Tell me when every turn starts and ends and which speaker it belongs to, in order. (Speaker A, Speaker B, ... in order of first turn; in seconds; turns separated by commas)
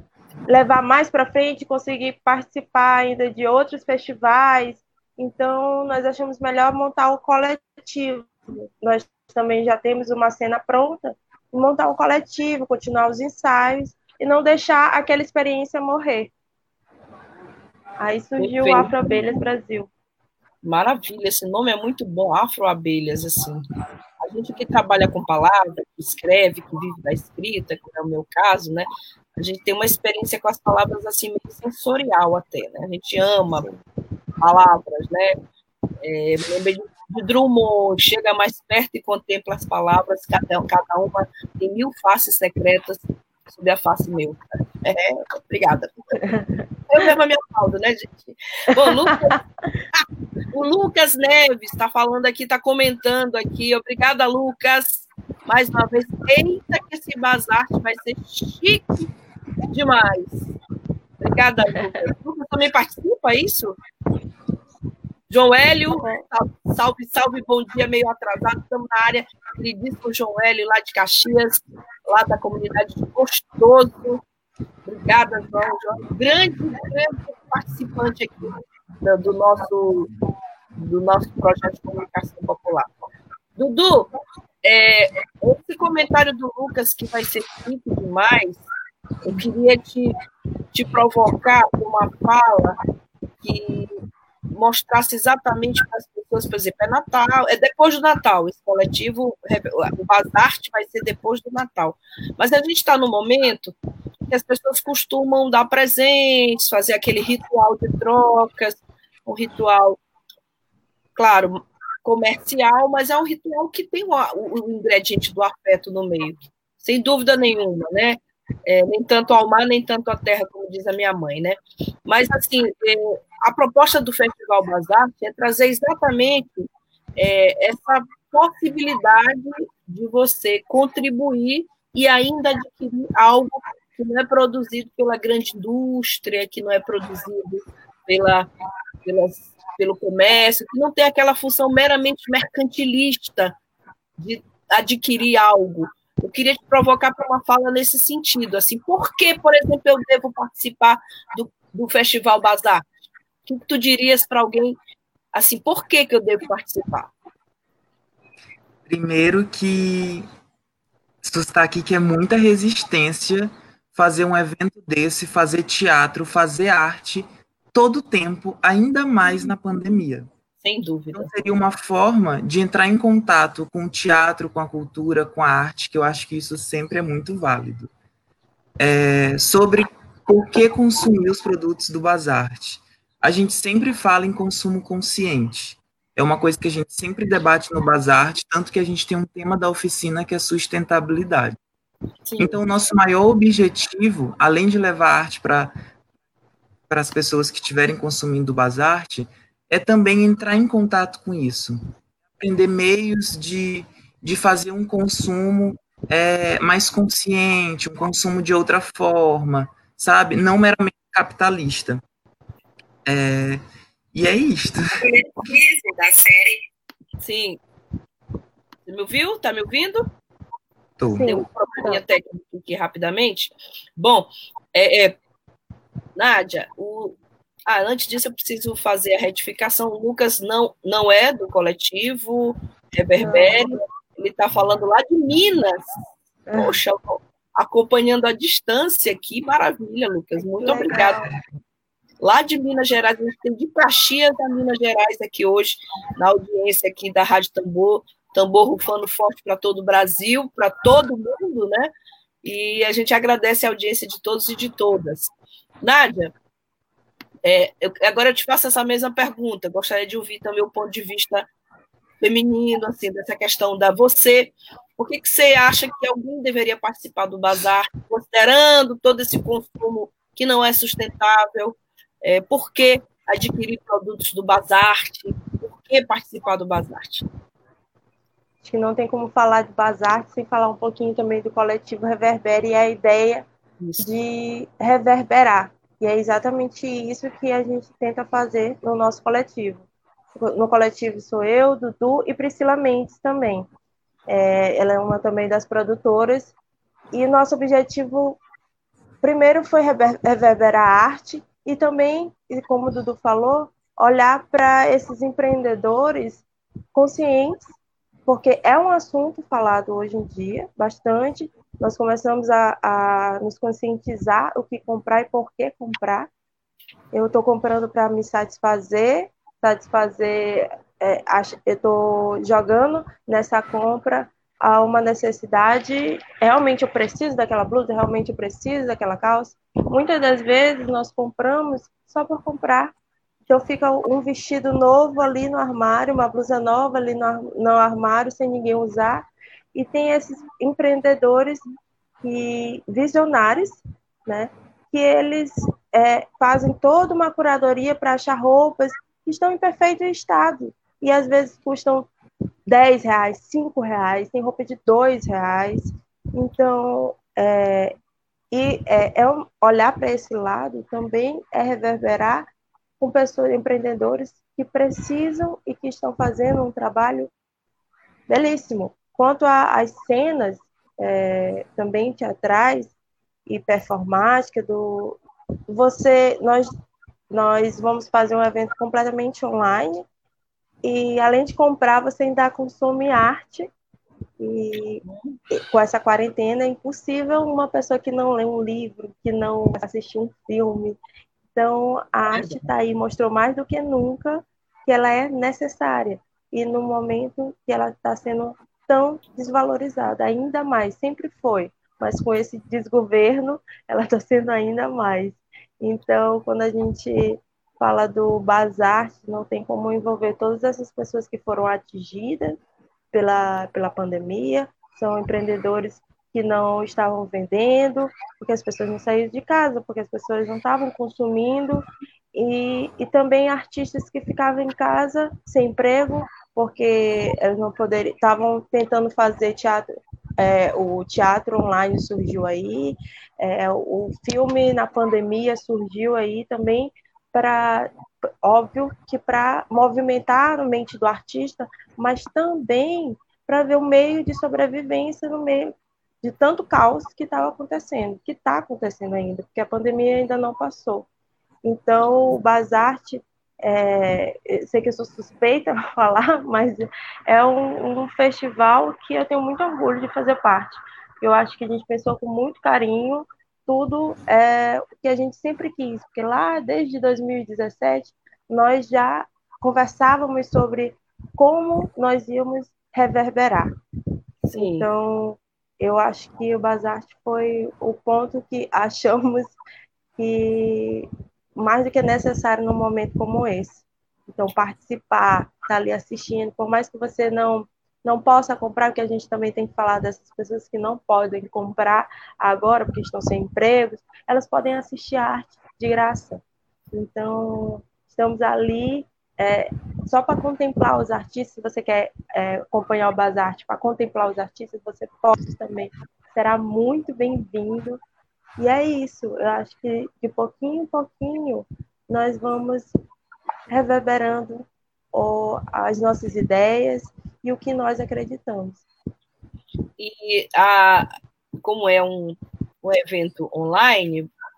Speaker A: 0.5-16.3, Speaker A: 18.0-19.9, Speaker B: 18.4-19.4, Speaker B: 20.6-23.7, Speaker B: 24.2-33.7, Speaker A: 33.5-33.8, Speaker B: 34.4-35.4, Speaker B: 36.0-46.2, Speaker A: 46.2-46.6, Speaker B: 46.9-49.4, Speaker A: 48.9-49.3, Speaker B: 50.5-59.1, Speaker B: 59.7-60.5, Speaker B: 61.2-63.8, Speaker B: 65.3-74.2, Speaker A: 65.9-66.3, Speaker B: 74.9-80.1, Speaker B: 80.8-83.0, Speaker B: 83.6-84.1, Speaker B: 84.6-88.7, Speaker B: 89.2-90.2, Speaker B: 90.7-92.8, Speaker B: 93.4-103.8, Speaker B: 104.3-110.0, Speaker B: 111.2-138.5, Speaker B: 139.1-143.6, Speaker B: 144.2-152.8, Speaker B: 153.5-154.8, Speaker B: 155.3-157.1, Speaker C: 158.9-160.3, Speaker C: 161.2-170.3, Speaker B: 170.6-171.3, Speaker C: 171.1-177.9, Speaker C: 178.8-191.6, Speaker B: 192.3-192.6, Speaker C: 192.4-195.8, Speaker C: 196.9-201.8, Speaker C: 202.4-212.0, Speaker C: 213.1-213.6, Speaker C: 214.1-214.9, Speaker B: 215.0-216.3, Speaker B: 217.2-217.6, Speaker B: 218.9-220.1, Speaker C: 221.0-221.3, Speaker A: 221.1-222.0, Speaker B: 221.2-225.2, Speaker B: 226.2-236.0, Speaker A: 233.2-233.8, Speaker A: 236.5-236.8, Speaker B: 236.5-241.2, Speaker A: 240.6-241.3, Speaker C: 240.9-241.4, Speaker B: 242.2-251.9, Speaker B: 252.4-256.3, Speaker B: 257.4-261.5, Speaker B: 262.2-277.2, Speaker A: 278.6-283.5, Speaker B: 283.8-284.1, Speaker A: 284.0-293.7, Speaker A: 294.3-296.5, Speaker A: 297.1-298.4, Speaker A: 299.2-307.6, Speaker A: 308.3-316.3, Speaker A: 317.1-332.9, Speaker A: 333.5-341.7, Speaker A: 342.2-352.1, Speaker A: 352.7-358.0, Speaker A: 358.5-362.5, Speaker A: 363.0-367.3, Speaker A: 368.3-372.9, Speaker A: 373.5-376.7, Speaker A: 377.3-380.1, Speaker A: 380.8-383.7, Speaker A: 384.4-391.0, Speaker B: 385.0-385.4, Speaker A: 391.5-412.6, Speaker B: 392.3-392.7, Speaker A: 413.1-451.1, Speaker A: 451.6-473.7, Speaker B: 474.4-474.9, Speaker A: 474.6-479.6, Speaker A: 480.2-508.0, Speaker A: 508.6-512.9, Speaker A: 513.7-518.8, Speaker B: 520.0-521.1, Speaker B: 521.6-524.3